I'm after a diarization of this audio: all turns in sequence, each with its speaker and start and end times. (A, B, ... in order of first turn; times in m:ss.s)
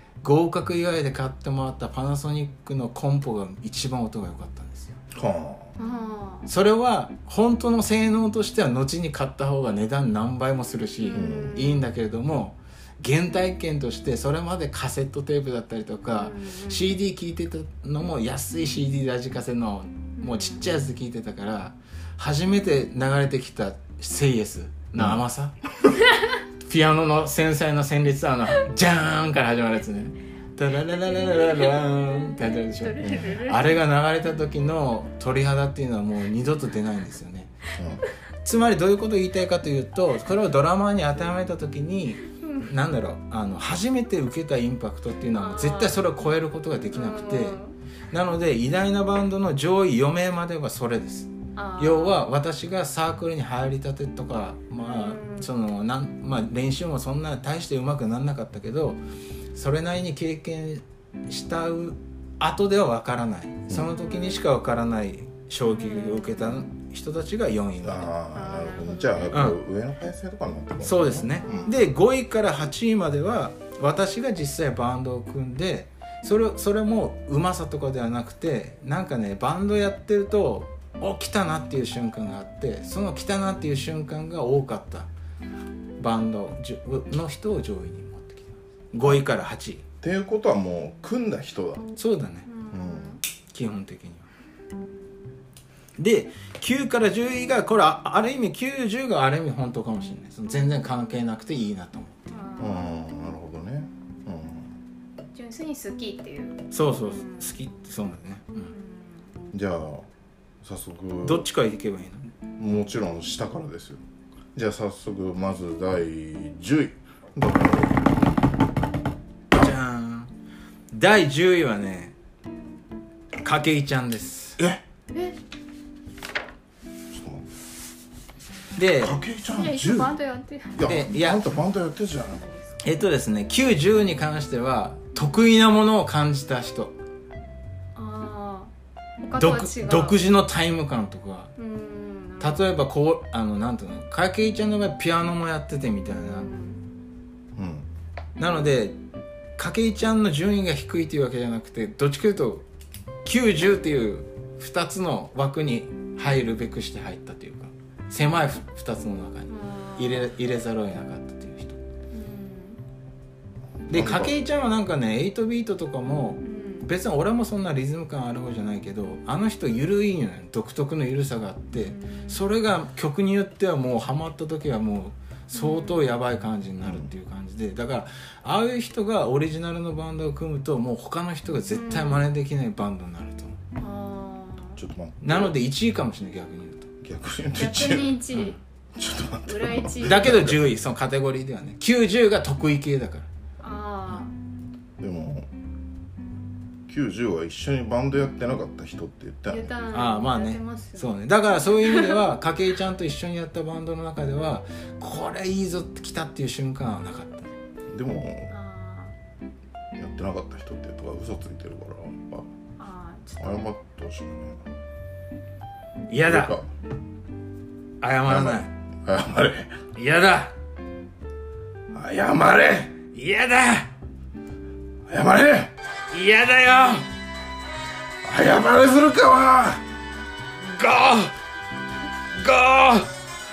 0:00.2-0:05.0 A
0:05.1-0:05.7 B
0:05.8-0:06.5 C
0:06.5-0:25.6 A
0:11.0-0:11.9 C
0:11.1-0:11.6 B
0:16.1-0:17.0 C
0:20.2-0:20.7 C
0:26.6-0:37.6 A
0:31.0-0:33.8 C
0:33.0-0:33.4 B
0:37.8-0:38.0 B
0:38.4-0:47.6 A
0:42.4-0:42.7 C
0:45.3-0:46.0 C
0:46.9-0:47.7 C
0:48.1-0:59.0 A
0:51.5-0:52.2 C
0:54.8-0:55.5 C
0:59.5-1:08.1 A
1:04.0-1:04.4 C
1:05.7-1:06.7 C
1:07.8-1:11.8 B
1:08.3-1:09.3 C
1:09.3-1:09.6 A
1:10.8-1:25.1 A
1:11.4-1:11.8 C
1:26.0-1:29.8 A
1:30.0-1:31.9 B
1:32.0-1:32.5 A
1:32.4-1:33.2 C
1:32.7-1:33.2 B
1:33.5-1:34.3 A
1:36.0-1:42.2 A
1:42.3-1:42.9 C
1:42.6-1:44.7 B
1:45.3-1:47.6 C
1:46.7-1:48.7 A
1:48.7-1:49.4 C
1:49.5-1:50.1 B
1:50.6-1:51.5 B
1:51.2-1:52.3 A
1:52.6-1:54.0 B
1:54.5-1:58.3 B
1:59.5-2:00.3 A
2:00.9-2:02.1 A
2:03.4-2:04.6 A
2:04.6-2:04.8 B
2:05.1-2:05.4 C
2:07.1-2:07.5 B
2:08.8-2:09.2 A
2:09.0-2:10.1 B
2:09.5-2:11.0 C
2:10.7-2:12.5 B
2:10.8-2:11.5 A
2:12.3-2:12.8 C
2:12.8-2:16.9 A
2:15.1-2:15.4 C
2:17.9-2:20.2 C
2:19.4-2:21.5 A
2:21.6-2:22.8 C
2:22.4-2:26.5 A
2:26.1-2:26.8 C
2:27.6-2:27.9 B
2:28.4-2:29.0 A
2:29.6-2:32.6 A
2:33.2-2:41.8 A
2:39.5-2:40.3 C
2:42.1-2:42.8 C
2:43.9-2:44.3 B
2:43.9-3:03.6 A
2:46.4-2:46.9 C
2:51.7-2:52.4 C
2:55.5-2:56.0 C
2:56.8-2:57.1 B
3:01.7-3:02.2 C
3:03.8-3:04.8 C
3:04.8-3:05.6 B
3:05.2-3:06.9 A
3:07.0-3:08.2 B
3:07.5-3:08.6 C
3:09.0-3:10.7 B
3:09.4-3:10.4 C
3:10.0-3:13.3 A
3:13.6-3:14.3 C
3:15.0-3:15.5 B
3:16.9-3:19.7 B
3:19.5-3:22.2 C
3:19.9-3:27.5 A
3:27.9-3:28.5 B
3:28.5-3:29.1 C
3:30.0-3:32.5 B
3:32.8-3:33.6 C
3:33.4-3:34.6 B
3:36.1-3:36.6 A
3:36.3-3:36.7 B
3:38.0-3:38.7 A
3:38.3-3:39.8 B
3:39.9-3:40.5 A
3:41.9-3:43.0 B
3:43.1-3:43.9 A
3:45.1-3:45.7 B
3:46.1-3:47.0 A
3:48.2-3:49.8 B
3:50.6-3:51.3 A
3:52.4-3:53.1 A